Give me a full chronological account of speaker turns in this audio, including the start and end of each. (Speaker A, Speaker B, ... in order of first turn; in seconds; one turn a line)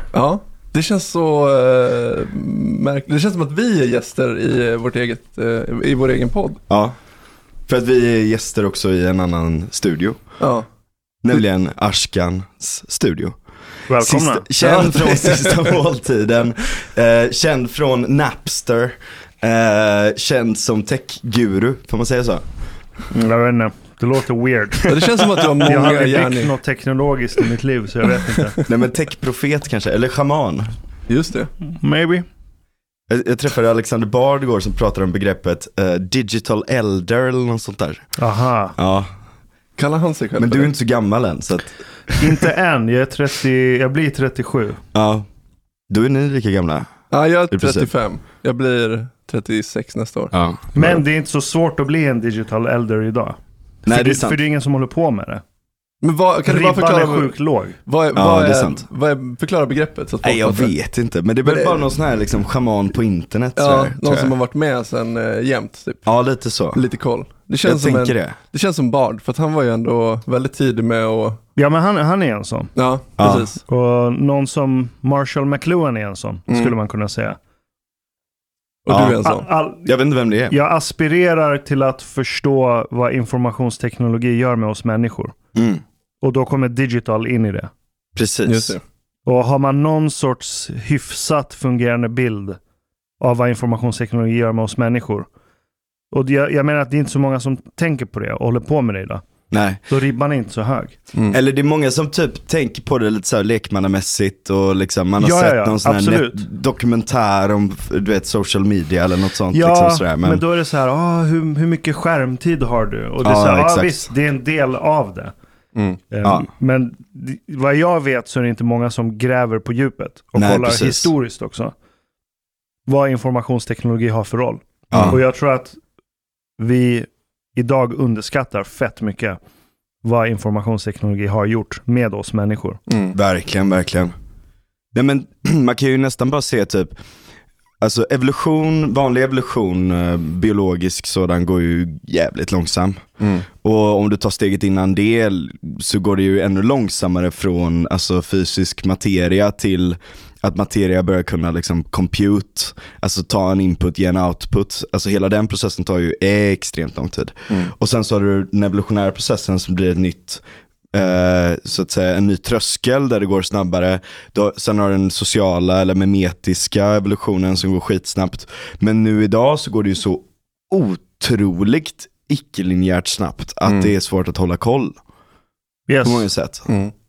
Speaker A: 0.1-6.6
Speaker B: 6.7-7.0
Speaker B: 7.7-10.2
Speaker A: 10.4-10.6
Speaker B: 11.2-13.4
Speaker C: 13.9-14.7
Speaker B: 14.0-22.4
Speaker A: 14.6-15.6
Speaker C: 23.1-24.9
Speaker A: 24.9-26.5
Speaker C: 25.6-28.6
Speaker B: 28.7-30.7
Speaker A: 31.1-31.5
Speaker C: 31.6-32.2
Speaker B: 33.1-38.0
Speaker C: 38.2-38.7
Speaker B: 38.8-39.1
Speaker A: 39.8-40.7
Speaker B: 40.4-42.4
Speaker C: 42.2-44.8
Speaker B: 44.9-45.3
Speaker B: 45.9-46.9
Speaker A: 47.1-50.3
Speaker B: 47.5-47.9
Speaker B: 50.3-51.0
Speaker C: 50.7-55.4
Speaker B: 53.9-54.4
Speaker A: 56.0-60.7
Speaker C: 56.5-57.8
Speaker B: 58.1-58.8
Speaker B: 60.2-64.3
Speaker A: 61.5-61.9
Speaker A: 63.5-66.1
Speaker B: 66.1-66.8
Speaker A: 66.7-71.4
Speaker B: 67.6-68.3
Speaker C: 71.6-72.7
Speaker A: 72.8-73.6
Speaker B: 73.2-73.5
Speaker C: 73.7-77.4
Speaker A: 78.8-79.5
Speaker B: 78.9-79.2
Speaker C: 79.2-79.9
Speaker B: 79.8-80.5
Speaker C: 80.5-85.3
Speaker B: 85.5-85.8
Speaker C: 86.2-87.7
Speaker B: 88.2-88.8
Speaker A: 88.5-88.8
Speaker C: 89.2-92.6
Speaker C: 93.2-95.3
Speaker C: 96.1-99.2
Speaker B: 99.5-99.8
Speaker C: 99.9-101.0
Speaker A: 101.1-101.4
Speaker B: 101.3-110.4
Speaker C: 105.2-106.4
Speaker C: 109.5-115.3
Speaker B: 113.2-114.1
Speaker A: 115.8-116.0
Speaker C: 116.1-121.8
Speaker B: 120.4-121.1
Speaker C: 122.9-125.8
Speaker B: 124.9-125.2
Speaker C: 126.6-129.4
Speaker C: 130.0-132.8
Speaker A: 132.9-133.1
Speaker B: 133.1-134.1
Speaker B: 134.9-136.9
Speaker B: 137.8-143.1
Speaker A: 143.2-143.5
Speaker B: 143.6-175.0
Speaker A: 173.7-173.9
Speaker C: 175.9-176.2
Speaker B: 176.0-176.7
Speaker A: 176.7-176.9